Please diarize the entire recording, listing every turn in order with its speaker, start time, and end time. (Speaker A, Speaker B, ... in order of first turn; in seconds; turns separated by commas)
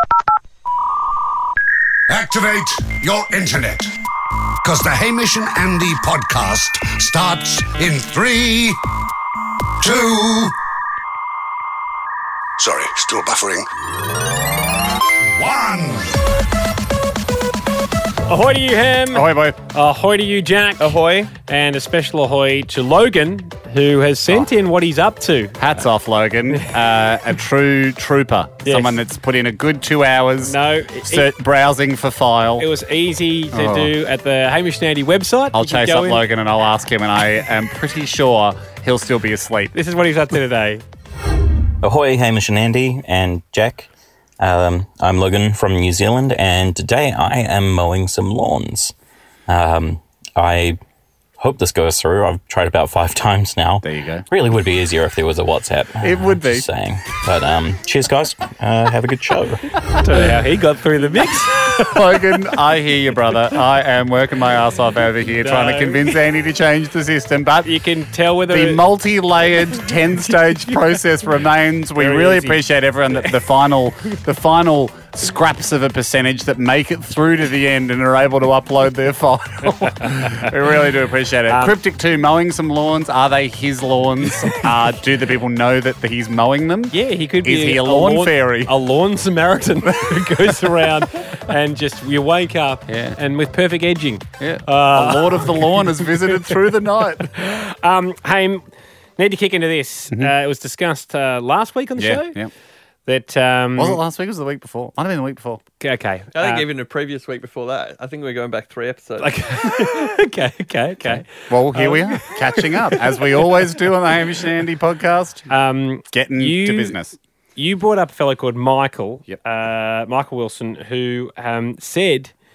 Speaker A: 2.1-3.9, Speaker A: 4.6-8.8, Speaker A: 9.8-10.5, Speaker A: 12.6-13.7, Speaker A: 15.3-16.1, Speaker B: 18.3-25.6, Speaker C: 19.1-19.6, Speaker D: 20.8-21.3, Speaker C: 25.6-32.7, Speaker B: 28.6-28.9, Speaker B: 30.4-31.3, Speaker B: 32.6-36.3, Speaker C: 33.5-33.9, Speaker C: 35.5-39.7, Speaker B: 39.7-40.8, Speaker E: 41.8-43.9, Speaker E: 44.4-48.9, Speaker E: 49.5-50.8, Speaker E: 51.4-59.6, Speaker C: 53.8-54.3, Speaker C: 56.0-56.7, Speaker B: 60.0-62.0, Speaker C: 61.5-67.8, Speaker B: 65.4-66.2, Speaker B: 67.6-68.8, Speaker C: 68.5-88.8, Speaker B: 72.0-72.7, Speaker B: 79.7-80.5, Speaker B: 81.5-81.8, Speaker B: 86.9-96.6, Speaker C: 92.9-93.2, Speaker C: 94.4-97.3, Speaker B: 97.2-98.6, Speaker B: 99.2-102.4, Speaker C: 102.0-102.5, Speaker B: 103.1-104.0, Speaker C: 103.8-105.6, Speaker B: 105.8-106.6, Speaker D: 106.3-109.4, Speaker B: 109.2-113.5, Speaker C: 111.0-115.5, Speaker B: 115.5-117.0, Speaker C: 116.1-117.2, Speaker B: 117.6-122.3